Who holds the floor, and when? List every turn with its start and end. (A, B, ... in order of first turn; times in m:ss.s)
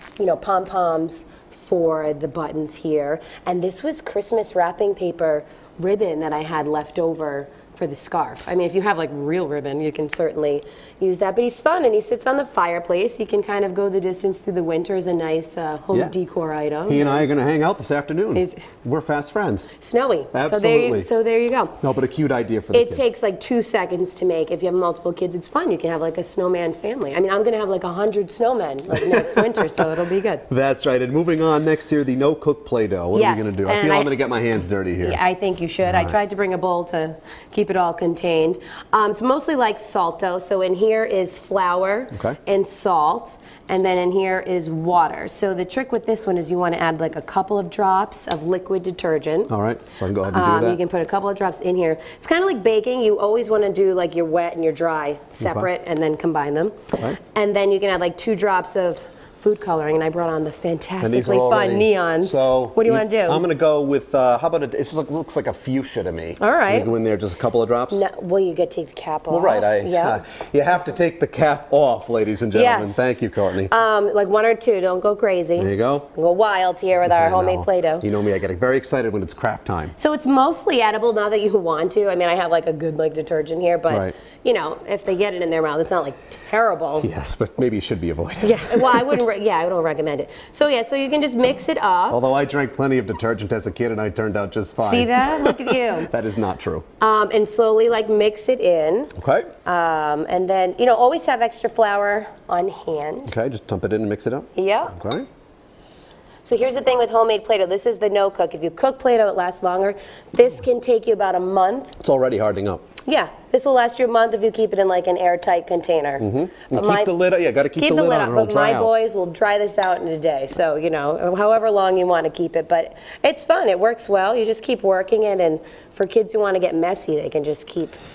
0:00.2-0:17.3 A
0:16.9-0:19.7 B
0:18.3-0:18.6 A
0:19.8-0:21.8 A
0:20.3-0:21.1 B
0:21.8-0:23.1 B
0:22.7-0:30.5 A
0:29.0-0:29.7 B
0:30.5-0:35.2 B
0:33.1-0:34.1 A
0:35.0-0:49.5 A
0:35.8-0:36.1 B
0:42.1-0:42.4 B
0:49.5-0:50.8 B
0:50.3-0:56.8 A
0:55.4-0:55.7 B
0:57.3-1:03.4 A
1:01.0-1:08.0 B
1:06.4-1:06.9 A
1:07.9-1:10.2 A
1:09.3-1:13.7 B
1:12.5-1:18.1 A
1:15.6-1:16.1 B
1:17.0-1:19.9 B
1:20.0-1:27.1 A
1:23.9-1:24.1 B
1:27.0-1:29.2 B
1:28.4-1:32.2 A
1:32.1-1:36.8 B
1:34.8-1:36.1 A
1:37.0-1:39.1 A
1:39.2-1:39.5 B
1:39.6-1:43.3 A
1:43.2-1:45.3 B
1:44.5-1:45.0 A
1:46.4-1:52.0 A
1:52.0-1:52.8 B
1:53.0-1:57.1 A
1:56.2-1:58.9 B
1:57.8-2:08.0 A